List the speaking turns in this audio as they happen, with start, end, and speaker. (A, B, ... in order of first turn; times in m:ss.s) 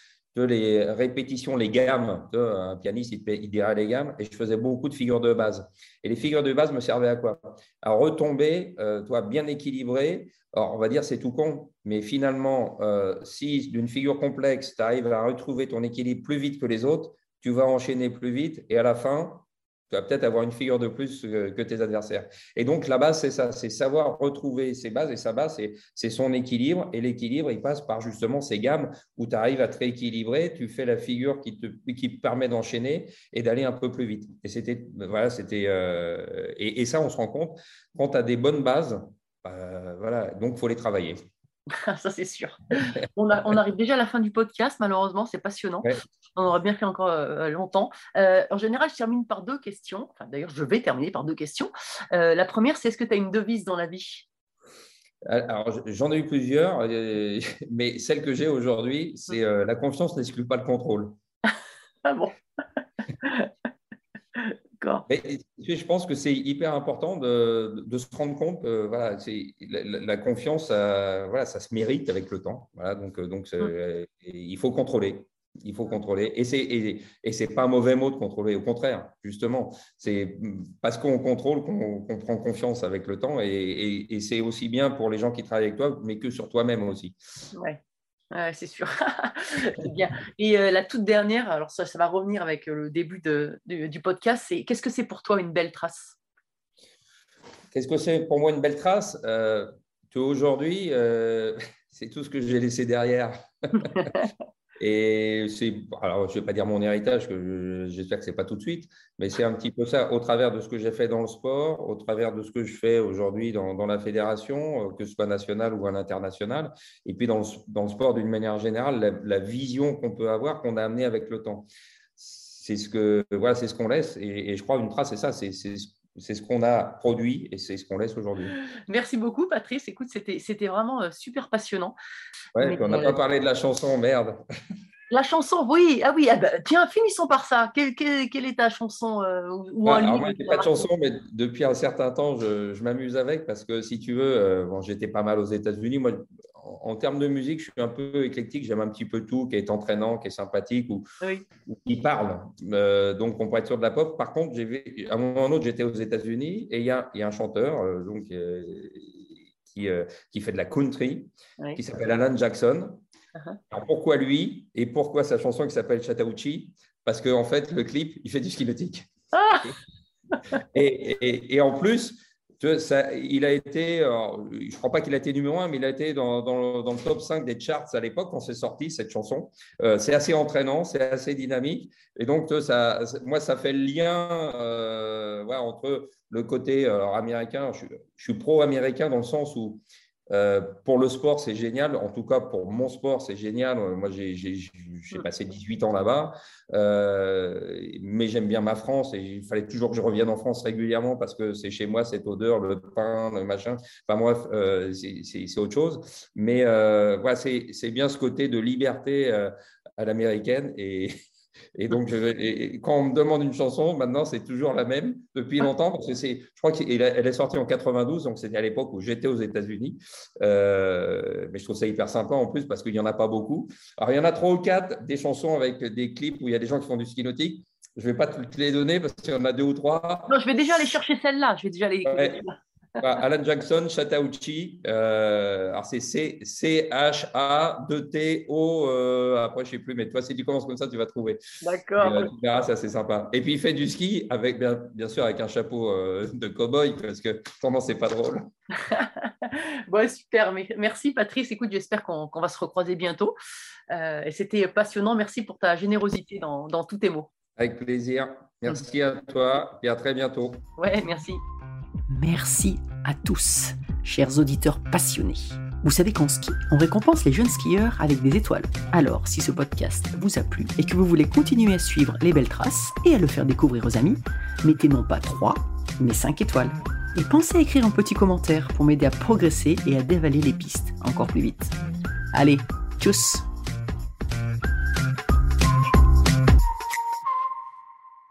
0:00.3-0:41.2 A
0:41.7-0:54.3 B
0:55.2-1:01.2 A
1:02.0-1:02.4 B
1:03.2-1:03.5 B
1:04.4-1:05.0 B
1:05.1-1:27.2 A
1:27.5-1:27.8 B
1:28.3-1:36.2 B
1:37.7-1:44.1 A
1:44.0-1:44.2 B
1:44.8-2:01.7 A
2:02.2-2:08.5 A
2:08.9-2:12.0 B
2:12.6-2:14.4 A
2:12.6-2:13.2 B
2:15.1-2:20.9 B
2:19.8-2:31.1 A
2:31.7-2:43.0 A
2:43.7-2:49.8 A
2:49.3-2:49.7 B
2:50.7-3:31.2 A
3:31.8-3:50.3 A
3:50.3-3:52.6 B
3:52.1-3:52.4 A
3:53.0-4:01.4 A
4:01.6-4:02.3 B
4:02.0-4:08.5 A
4:08.8-4:13.4 B
4:13.9-4:17.3 B
4:17.6-4:20.6 A
4:20.8-4:21.4 B
4:22.1-4:41.6 C
4:42.4-4:43.4 C